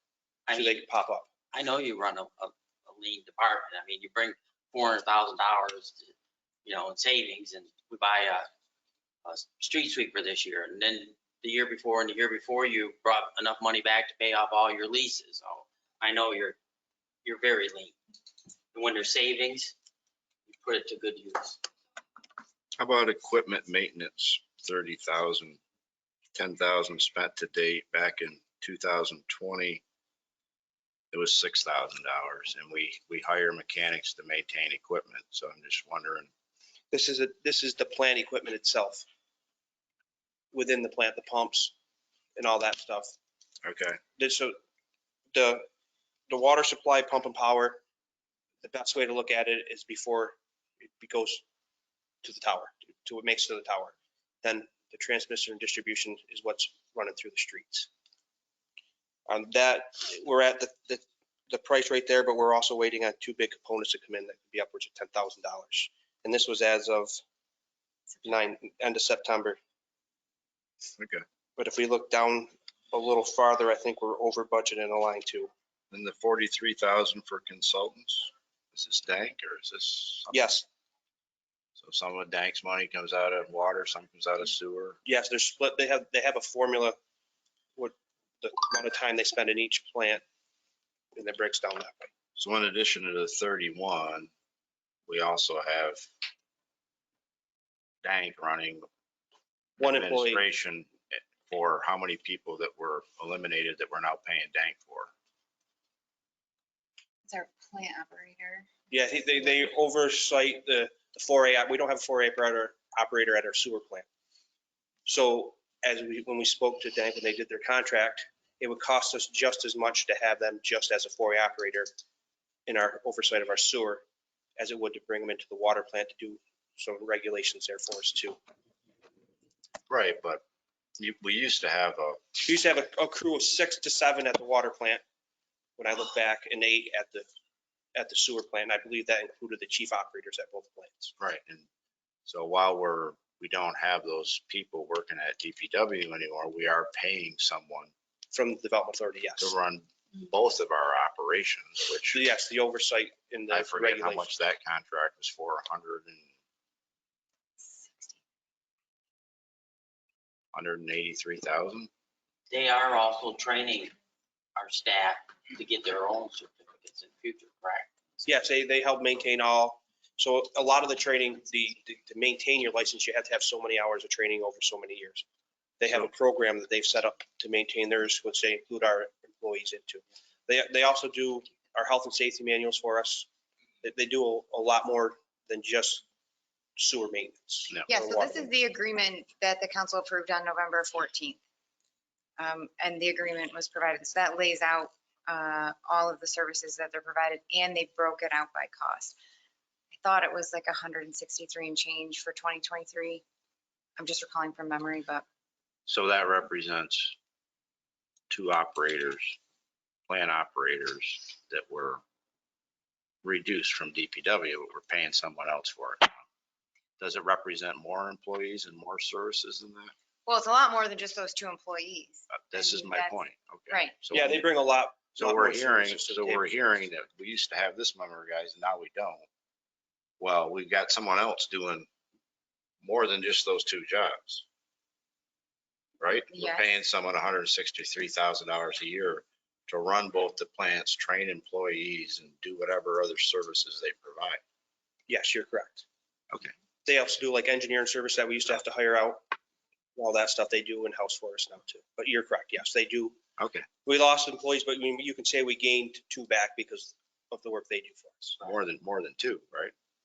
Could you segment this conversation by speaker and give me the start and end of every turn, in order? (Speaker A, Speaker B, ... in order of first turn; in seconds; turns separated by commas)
Speaker A: 0.5-0.8, Speaker B: 0.5-1.3, Speaker A: 1.5-6.1, Speaker A: 6.7-8.5, Speaker A: 9.2-16.6, Speaker A: 17.2-17.9, Speaker A: 18.7-19.7, Speaker A: 20.5-21.6, Speaker C: 22.8-25.6, Speaker C: 26.4-29.8, Speaker C: 31.1-36.3, Speaker B: 36.9-39.0, Speaker B: 40.5-41.7, Speaker B: 42.4-43.1, Speaker C: 43.6-44.0, Speaker B: 44.2-44.6, Speaker B: 45.3-45.7, Speaker B: 46.3-47.8, Speaker B: 48.6-51.4, Speaker B: 52.2-57.9, Speaker B: 59.3-67.2, Speaker B: 68.2-69.6, Speaker C: 71.0-71.2, Speaker B: 71.6-75.5, Speaker C: 75.9-80.5, Speaker B: 80.3-80.6, Speaker C: 81.8-85.0, Speaker B: 85.0-87.0, Speaker B: 87.8-90.2, Speaker B: 91.2-92.1, Speaker C: 92.4-94.3, Speaker C: 95.1-96.1, Speaker C: 98.0-98.9, Speaker C: 99.8-105.1, Speaker B: 99.8-100.4, Speaker D: 107.3-108.7, Speaker B: 108.9-114.1, Speaker B: 115.1-121.9, Speaker B: 122.7-124.0, Speaker B: 124.6-128.4, Speaker C: 129.9-130.4, Speaker C: 131.0-132.2, Speaker B: 132.4-135.0, Speaker B: 135.8-137.3, Speaker B: 137.9-141.1, Speaker C: 141.2-141.7, Speaker C: 142.3-147.9, Speaker B: 148.3-149.6, Speaker C: 149.4-152.2, Speaker B: 152.1-154.3, Speaker C: 153.5-156.2, Speaker D: 157.7-158.1, Speaker C: 160.5-161.9, Speaker A: 162.5-163.9, Speaker A: 164.6-168.2, Speaker B: 168.2-175.2, Speaker B: 175.8-183.3, Speaker B: 183.8-186.0, Speaker B: 186.8-188.5, Speaker D: 187.9-191.4, Speaker D: 192.4-199.2, Speaker D: 200.0-203.2, Speaker D: 204.0-205.2, Speaker C: 205.9-207.2, Speaker C: 208.3-209.4, Speaker C: 210.1-212.0, Speaker C: 213.2-216.2, Speaker C: 217.0-219.9, Speaker D: 220.3-223.2, Speaker C: 222.3-224.4, Speaker B: 224.1-226.5, Speaker C: 225.2-229.2, Speaker C: 230.2-231.9, Speaker C: 232.8-234.4, Speaker C: 236.0-244.4, Speaker D: 236.3-236.7, Speaker B: 245.1-245.8, Speaker B: 246.8-249.2, Speaker B: 250.0-253.2, Speaker C: 253.4-253.7, Speaker B: 253.8-258.4, Speaker C: 258.4-259.7